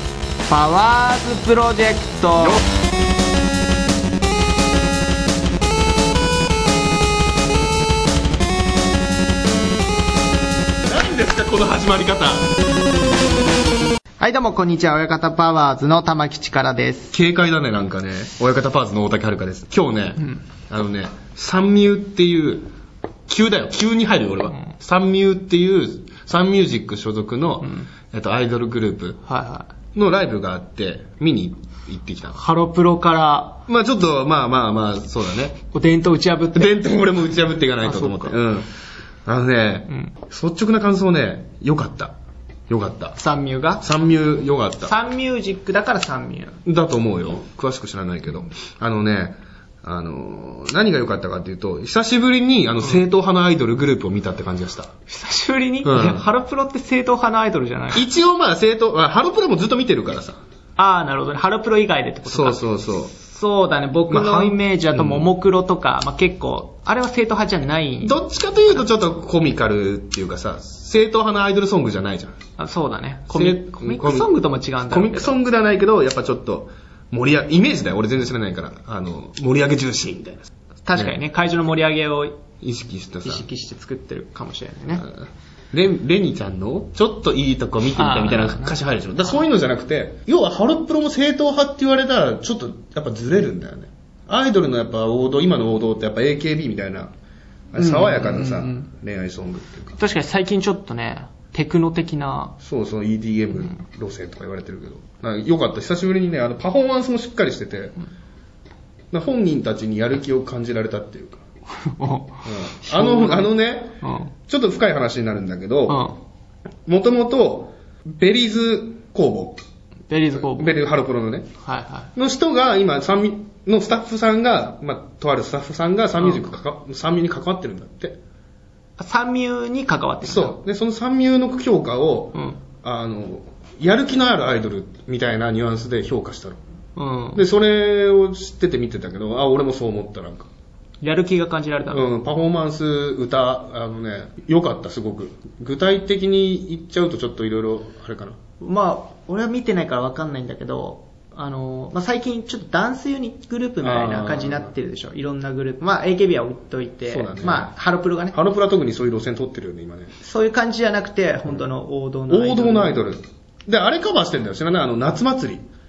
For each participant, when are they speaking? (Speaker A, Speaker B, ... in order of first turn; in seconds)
Speaker A: 0.5-2.6, 14.2-17.1, 27.6-27.9, 29.2-29.7, 32.3-33.6, 35.7-36.8, 37.8-38.4, 43.1-43.9, 44.8-46.6, 55.1-58.0, 60.8-68.2, 72.6-75.4, 80.8-82.4, 83.2-85.1, 88.0-89.4, 97.8-98.9, 100.0-102.5, 111.8-114.3, 115.9-116.2, 120.1-120.8, 121.6-122.1, 129.0-130.6, 136.9-137.4, 141.0-142.0, 148.6-158.4, 160.2-163.1
Speaker B: 10.8-12.5, 17.1-22.7, 23.3-29.2, 29.9-32.4, 33.7-35.6, 36.5-38.7, 39.2-42.1, 42.7-43.1, 43.8-44.9, 46.6-54.9, 55.8-56.2, 57.9-60.4, 62.2-63.1, 64.1-65.2, 68.0-72.4, 73.3-74.3, 74.9-81.1, 82.6-83.5, 85.7-97.1, 97.7-100.0, 102.6-108.0, 109.1-111.4, 112.4-114.0, 114.5-116.0, 116.8-119.6, 120.3-121.5, 122.2-128.2, 130.2-136.6, 137.3-140.5, 141.9-148.4, 153.8-154.7, 157.1-157.7, 158.3-160.1, 162.3-165.7